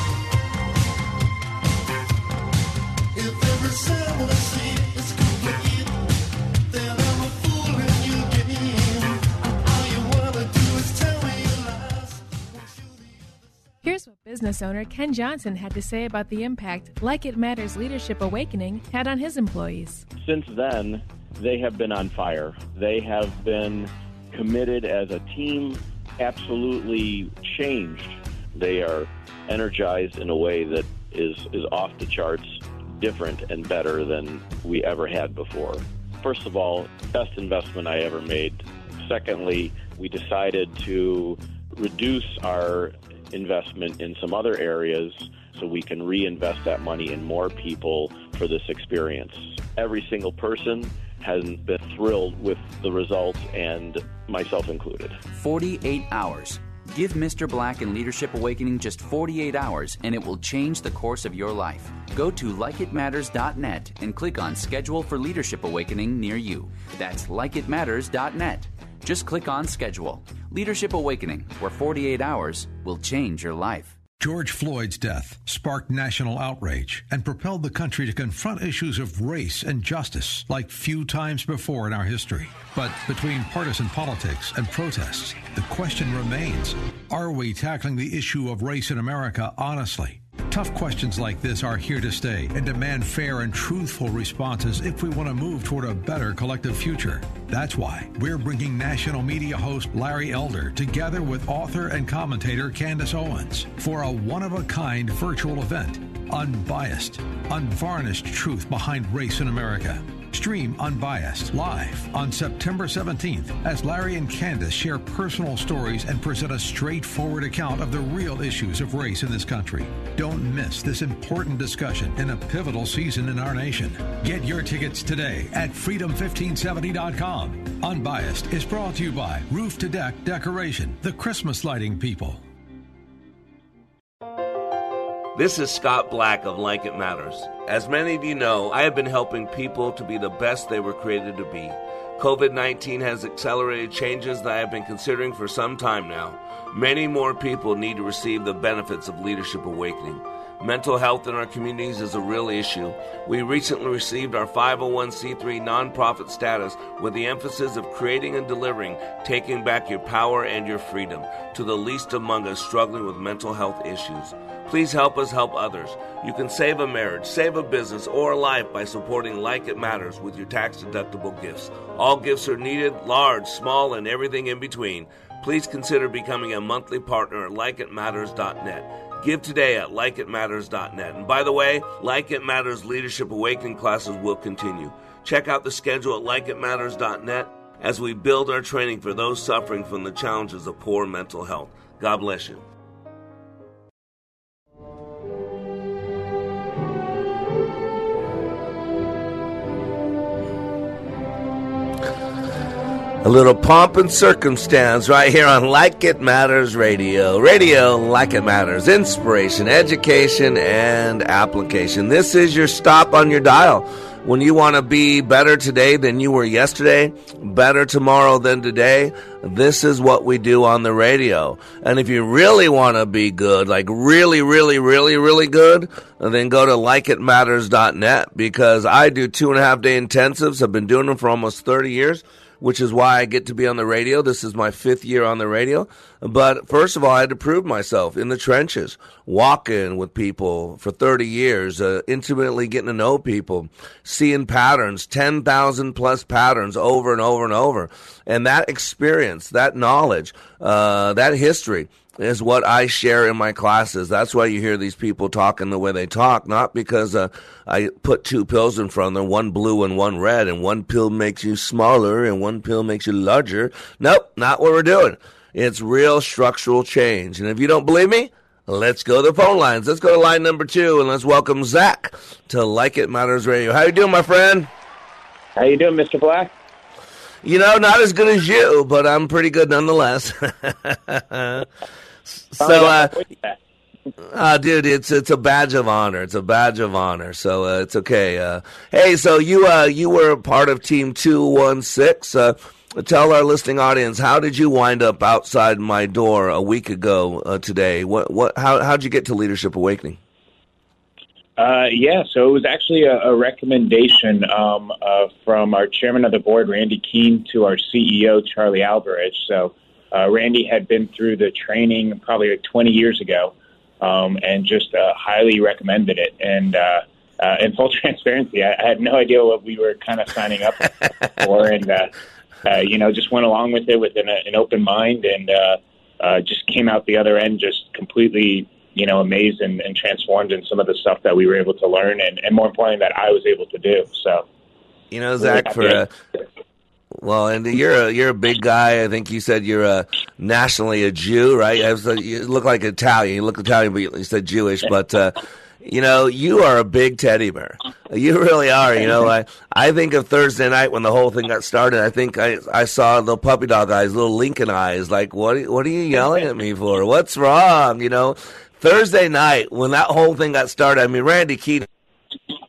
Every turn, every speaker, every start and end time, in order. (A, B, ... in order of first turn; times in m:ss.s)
0:03.7-0:04.5 A
0:13.8-0:20.0 B
0:20.2-0:55.2 C
0:55.3-1:14.0 D
1:14.2-2:12.4 E
2:15.4-3:12.6 A
3:23.2-4:34.7 A
4:35.6-4:36.5 F
4:37.4-4:41.7 A
4:42.4-4:43.2 A
4:42.6-4:43.6 F
4:44.3-5:00.2 A
5:01.6-5:22.1 F
5:22.7-5:34.4 F
5:35.1-5:36.1 A
5:35.4-5:36.0 F
5:37.2-6:01.9 A